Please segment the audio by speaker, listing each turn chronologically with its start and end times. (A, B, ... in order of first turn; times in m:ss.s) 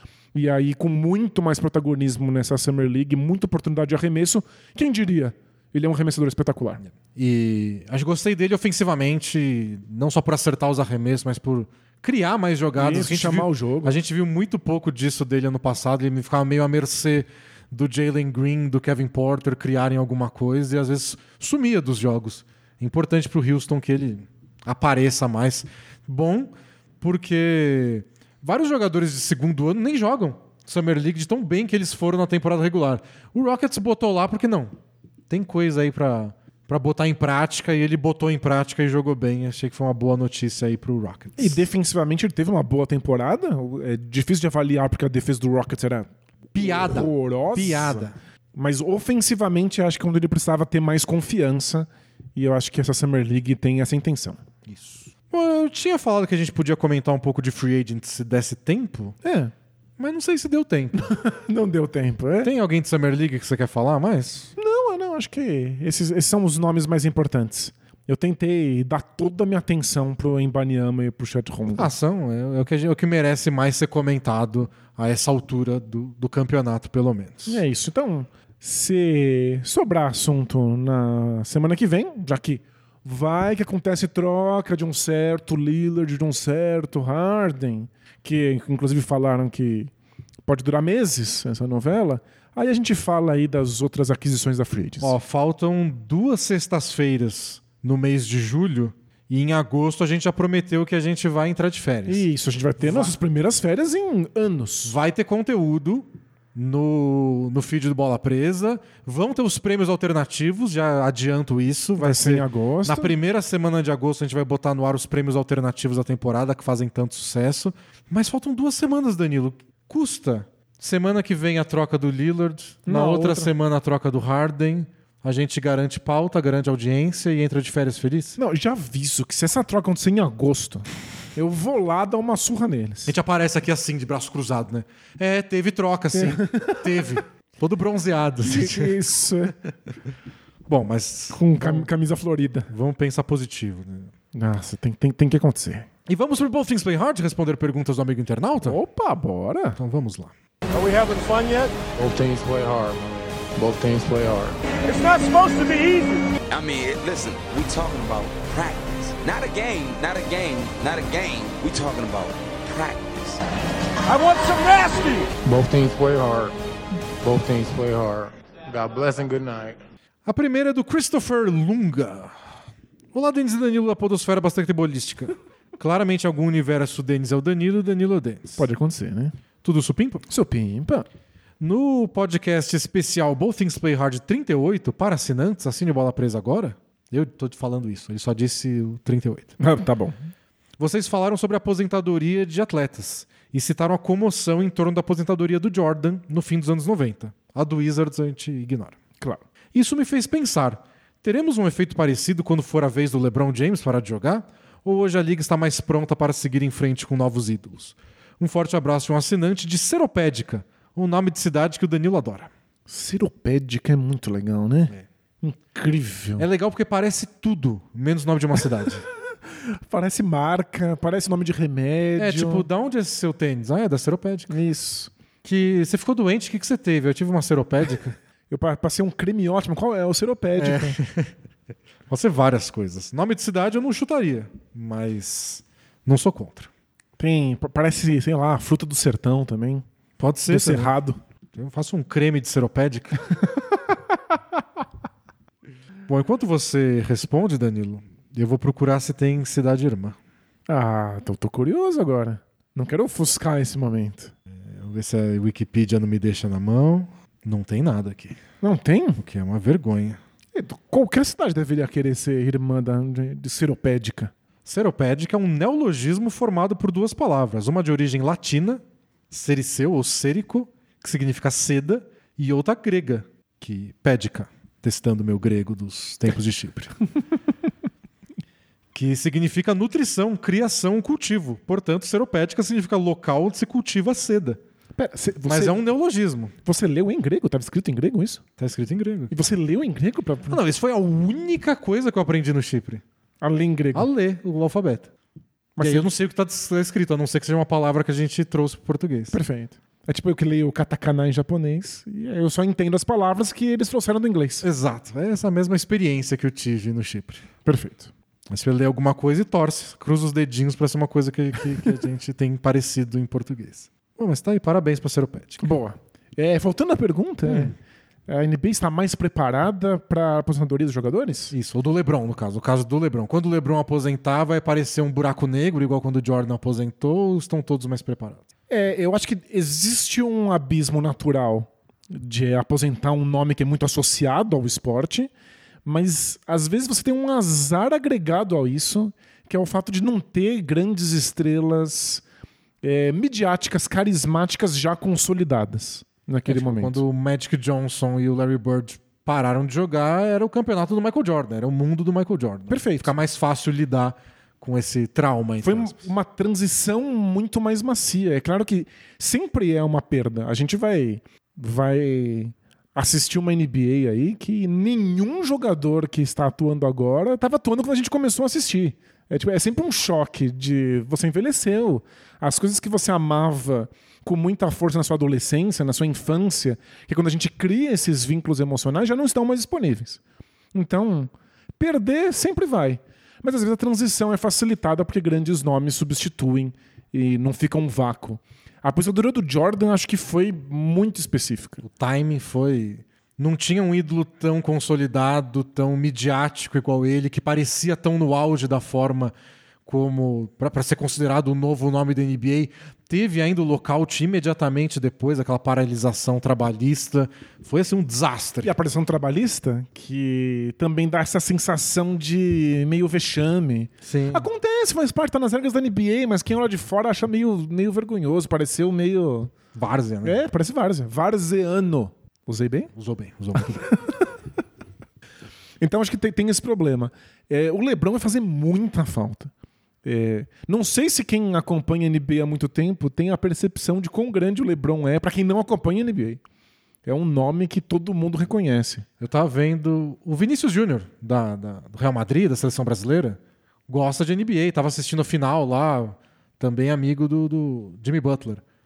0:00.3-0:06.8 A
0:06.9-0:34.8 B
0:12.8-0:13.9 A
0:35.3-0:41.6 B
0:41.4-0:46.1 A
0:46.5-0:48.2 B
0:46.6-0:54.4 A
0:54.6-0:59.2 B
0:59.2-0:59.5 A
1:00.0-1:01.0 B
1:00.9-1:02.5 A
1:02.4-1:04.5 B
1:04.6-1:11.9 A
1:11.7-1:17.6 B
1:17.5-1:29.9 A
1:30.5-1:35.1 A
1:35.0-1:42.2 B
1:42.1-1:44.9 A
1:42.8-1:43.1 B
1:44.8-2:08.4 B
1:52.0-1:53.1 A
2:02.8-2:03.5 A
2:08.4-2:13.1 A
2:13.1-2:18.9 B
2:16.1-2:16.9 A
2:18.4-2:19.6 A
2:20.6-2:21.9 B
2:21.3-2:22.7 A
2:22.7-2:24.1 B
2:24.3-2:25.9 A
2:26.1-2:28.8 B
2:28.6-2:29.8 A
2:29.8-2:30.3 B
2:30.8-2:31.7 C
2:32.0-2:34.6 D
2:34.8-2:36.3 C
2:36.5-2:43.4 E
2:44.0-2:45.3 C
2:45.4-2:46.6 D
2:47.2-2:49.8 D
2:50.2-2:52.4 B
2:53.1-2:58.7 B
2:58.6-2:59.4 A
2:59.6-3:00.2 B
3:00.3-3:01.0 A
3:01.6-3:09.6 B
3:09.6-3:10.2 A
3:10.8-3:19.0 B
3:19.7-3:32.5 B
3:32.9-3:36.4 A
3:36.4-3:39.0 B
3:39.7-3:42.6 A
3:42.2-3:44.5 B
3:44.5-3:45.1 A
3:45.4-3:48.2 B
3:48.5-3:51.0 A
3:50.6-3:51.3 B
3:52.1-3:56.7 B
3:57.2-3:59.8 A
4:00.2-4:00.9 B
4:00.5-4:01.2 A
4:01.5-4:03.2 B
4:06.1-4:10.2 B
4:10.7-4:14.3 A
4:14.5-4:18.4 B
4:18.6-4:19.2 A
4:19.2-4:20.2 B
4:20.5-4:24.3 A
4:24.6-4:37.0 B
4:38.9-4:44.6 B
4:45.0-4:45.8 A
4:45.5-4:46.5 B
4:46.6-4:48.4 A
4:48.6-4:49.4 B
4:49.3-4:50.6 A
4:50.5-4:53.0 B
4:53.4-4:54.1 A
4:53.9-4:55.1 B
4:55.8-4:56.1 A
4:55.8-4:59.4 B
4:59.3-5:04.6 A
5:04.6-5:07.4 B
5:07.6-5:08.1 A
5:08.5-5:15.6 B
5:15.6-5:17.7 A
5:17.4-5:17.7 B
5:18.3-5:21.5 A
5:21.5-5:28.4 B
5:28.7-5:35.3 A
5:35.8-5:42.2 A
5:42.8-5:47.0 A
5:46.4-5:56.1 B
5:52.7-5:53.1 A
5:55.6-6:20.2 A
6:20.7-6:31.8 A
6:31.8-6:39.3 B
6:39.8-6:48.7 B
6:48.6-6:59.5 A
6:54.0-6:54.5 B
6:59.7-7:00.4 B
7:00.2-7:02.9 A
7:03.0-7:03.9 B
7:03.6-7:04.1 A
7:05.8-7:09.5 A
7:10.0-7:16.4 A
7:17.0-7:19.0 A
7:19.2-7:28.6 B